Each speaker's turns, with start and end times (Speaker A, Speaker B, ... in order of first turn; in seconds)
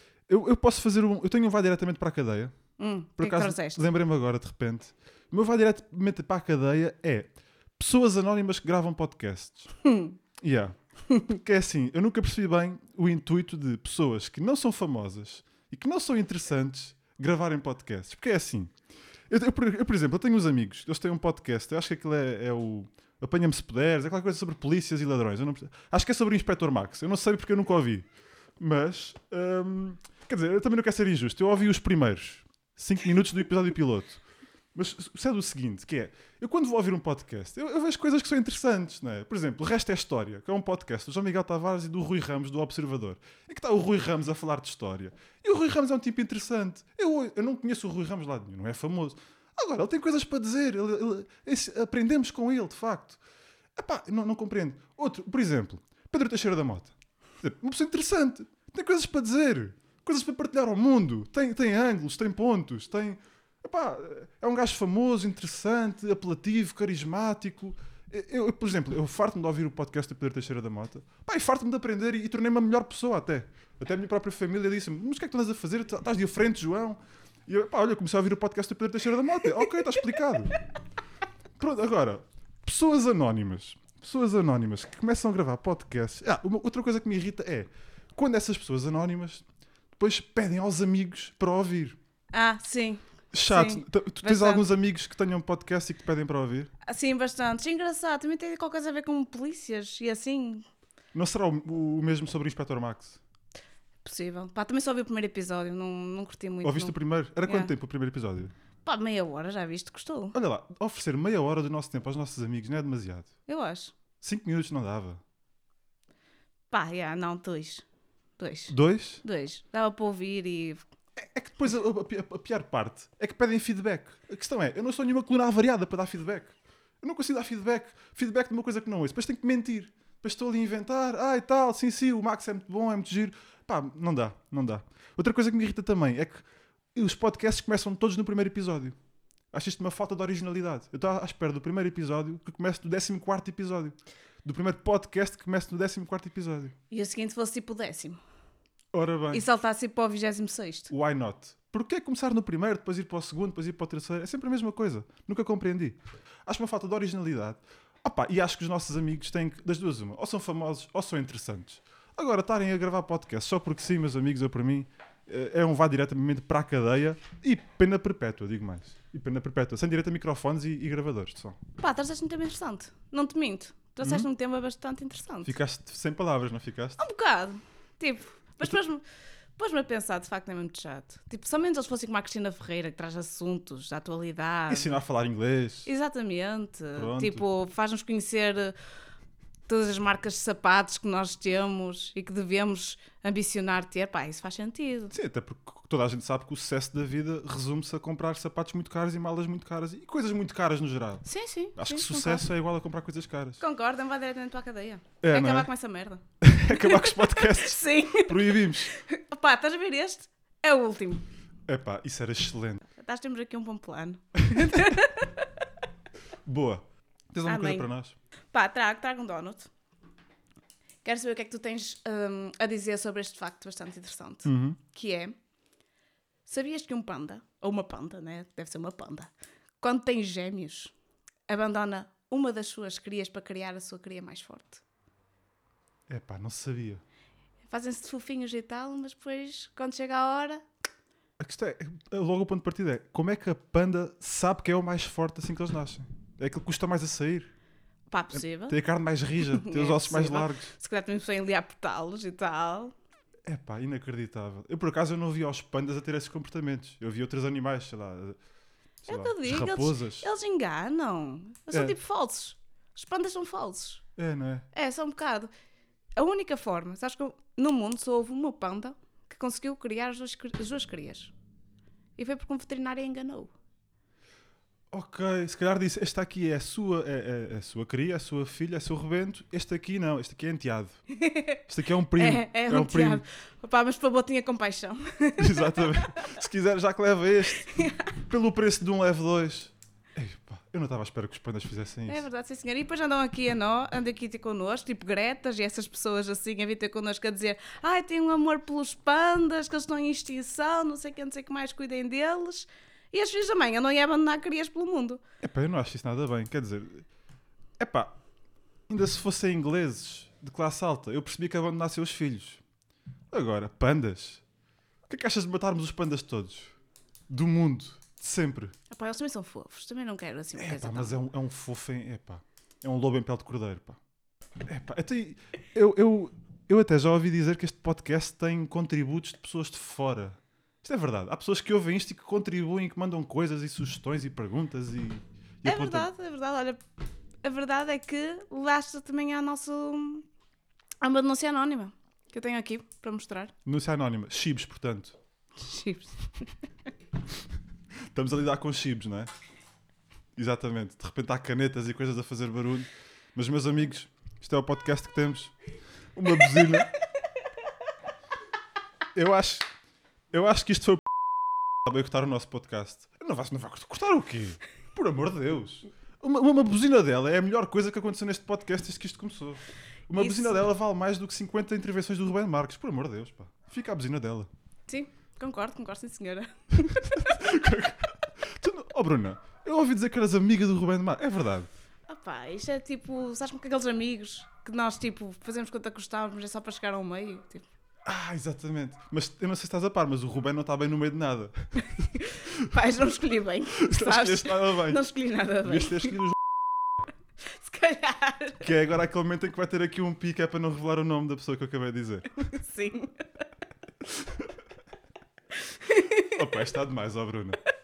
Speaker A: 0.3-2.6, 3.2-9.7, 10.4-18.8, 19.3-28.1, 28.6-34.2, 34.7-53.2, 53.8-80.6, 81.6-89.5, 90.0-92.0, 93.3-96.7, 101.1-103.2, 106.6-108.5, 110.3-113.3, 114.2-115.2, 118.7-119.2, 121.2-139.0, 139.5-146.8, 148.9-149.5, 150.9-171.6, 174.0-174.3, 175.4-177.0, 184.7-185.9, 186.9-187.5, 195.1-203.6, 205.2-205.7, 206.4-208.9, 211.7-212.8, 214.5-215.0, 216.4-218.2, 224.4-224.8, 236.1-237.0, 241.4-247.5, 248.3-250.7, 253.5-258.4, 259.0-260.3, 261.7-262.0, 264.2-264.7, 274.9-281.0, 281.7-283.2, 285.4-287.7, 288.2-292.2, 305.4-307.1, 307.8-308.2, 308.9-312.6, 313.3-314.4, 315.1-316.7, 317.3-318.7, 320.6-324.0, 324.6-336.1, 343.7-345.2, 348.1-349.3, 350.4-355.6, 356.1-356.9, 359.1-359.7, 360.3-374.5, 377.1-381.7, 388.1-392.0, 393.8-395.1, 395.6-396.5, 398.6-402.3, 404.0-404.5, 406.3-407.6
Speaker B: 2.8-3.9, 9.8-10.2, 92.3-94.6, 96.8-100.7, 104.0-107.7, 108.8-110.4, 113.5-113.9, 116.7-117.8, 118.4-120.9, 146.9-148.2, 149.3-150.9, 171.8-175.5, 177.0-179.0, 179.6-185.0, 185.9-188.8, 189.7-195.1, 201.2-202.4, 203.6-211.2, 213.0-215.5, 217.4-217.9, 218.5-219.7, 221.0-225.4, 226.5-230.9, 231.5-234.8, 237.7-240.6, 248.1-248.8, 249.4-252.9, 259.1-264.0, 264.7-265.5, 266.2-271.3, 272.2-273.5, 281.1-281.6, 282.2-286.4, 287.6-288.1, 292.1-305.2, 318.9-321.1, 335.6-336.8, 337.4-340.3, 341.0-343.5, 345.6-346.5, 370.2-370.6, 374.9-377.4, 382.1-387.7, 392.1-396.2, 397.5-398.7, 402.5-403.2, 405.7-406.5